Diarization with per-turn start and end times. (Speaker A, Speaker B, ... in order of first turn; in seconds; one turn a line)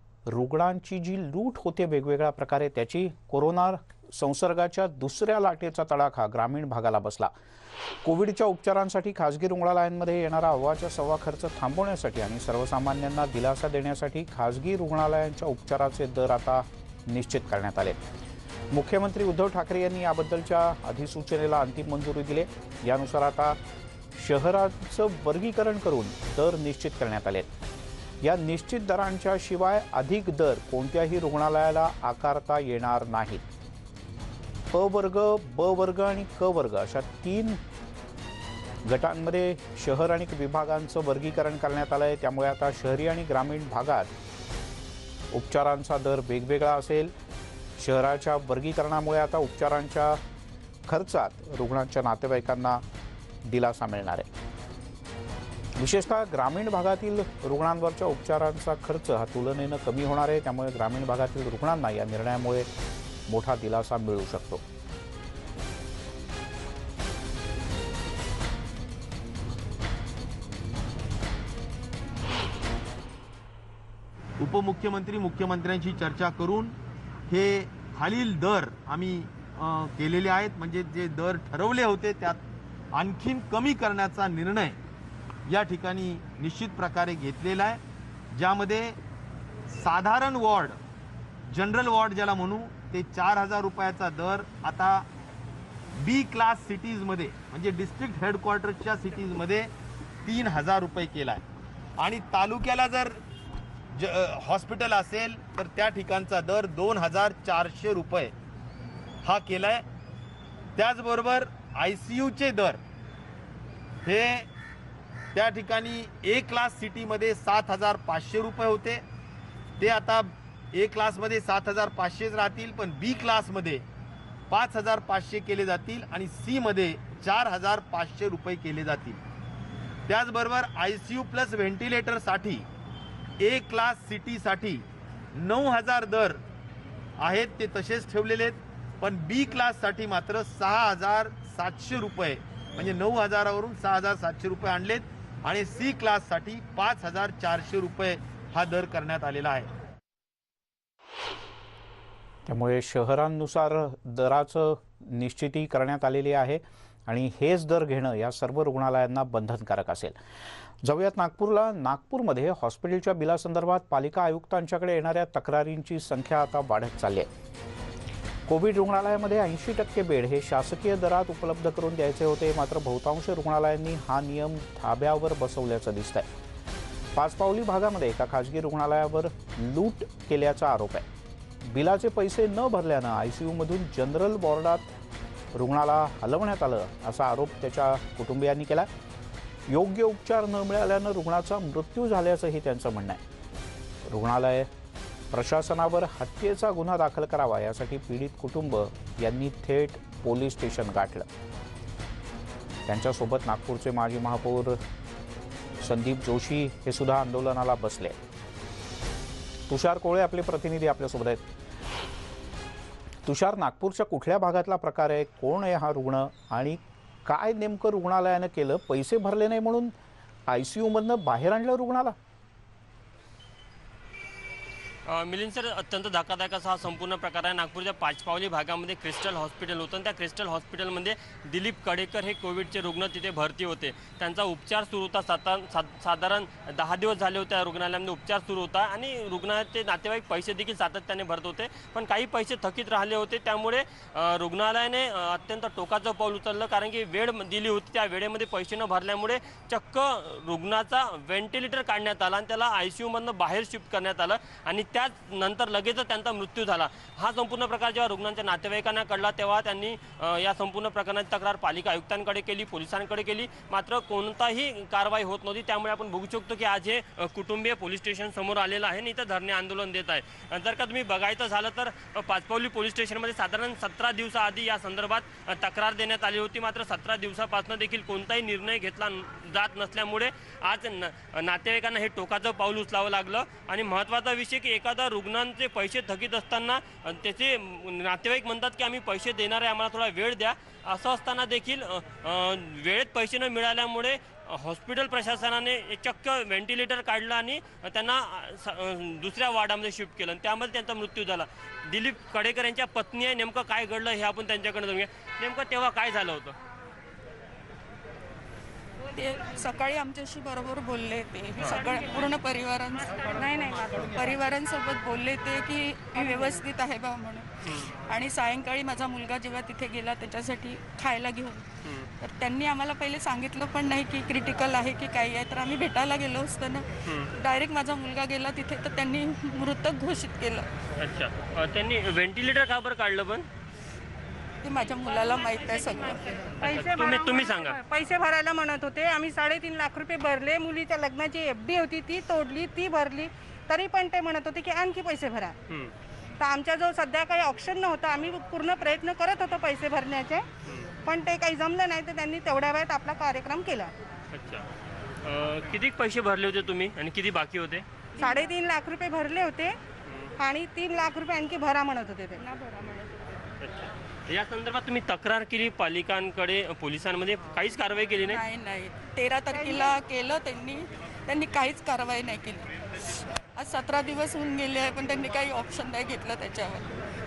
Speaker A: 0.3-7.3
Speaker A: 8.0-18.0
Speaker A: 18.7-23.6
Speaker A: 24.2-27.5
Speaker A: 28.2-33.5
Speaker A: 34.7-37.6
Speaker A: 38.9-44.1
Speaker A: 45.3-47.1
Speaker A: 47.8-50.2
Speaker A: 50.9-52.8
Speaker A: 53.5-54.3
Speaker A: 55.8-62.7
Speaker A: 63.3-64.6
Speaker B: 74.4-76.8
Speaker B: 77.3-82.4
Speaker B: 82.9-84.8
Speaker B: 85.5-87.8
Speaker B: 88.3-89.0
Speaker B: 89.7-90.8
Speaker B: 91.5-95.1
Speaker B: 96.0-99.7
Speaker B: 100.2-101.4
Speaker B: 102.0-103.2
Speaker B: 104.0-108.3
Speaker B: 109.2-109.8
Speaker B: 110.8-112.8
Speaker B: 114.0-114.5
Speaker B: 115.3-119.0
Speaker B: 119.8-123.8
Speaker B: 124.5-129.2
Speaker B: 130.1-132.7
Speaker B: 133.4-136.4
Speaker B: 137.2-149.7
Speaker A: 152.5-160.2
Speaker A: 160.8-167.3
Speaker A: 168.5-176.3
Speaker A: 177.2-181.1
Speaker A: 181.7-184.9
Speaker A: 185.5-188.9
Speaker A: 189.7-193.2
Speaker A: 194.1-194.7
Speaker A: 195.3-201.3
Speaker A: 202.9-204.8
Speaker A: 205.8-208.2
Speaker A: 209.7-211.4
Speaker A: 213.2-219.9
Speaker A: 220.5-222.2
Speaker C: 225.1-306.6
Speaker D: 309.1-313.4
Speaker E: 313.3-314.2
Speaker D: 314.1-321.6
Speaker E: 316.2-316.6
Speaker D: 322.2-330.7
Speaker C: 331.0-333.5
Speaker D: 334.6-336.4
Speaker C: 336.6-337.8
Speaker E: 336.6-345.6
Speaker E: 346.4-350.5
Speaker E: 351.0-353.9
Speaker C: 354.3-354.6
Speaker C: 355.2-357.9
Speaker E: 358.2-359.8
Speaker C: 360.1-360.3
Speaker E: 360.4-362.4
Speaker D: 362.6-363.1
Speaker C: 363.6-368.4
Speaker D: 368.3-372.7
Speaker E: 369.5-370.0
Speaker D: 373.6-376.9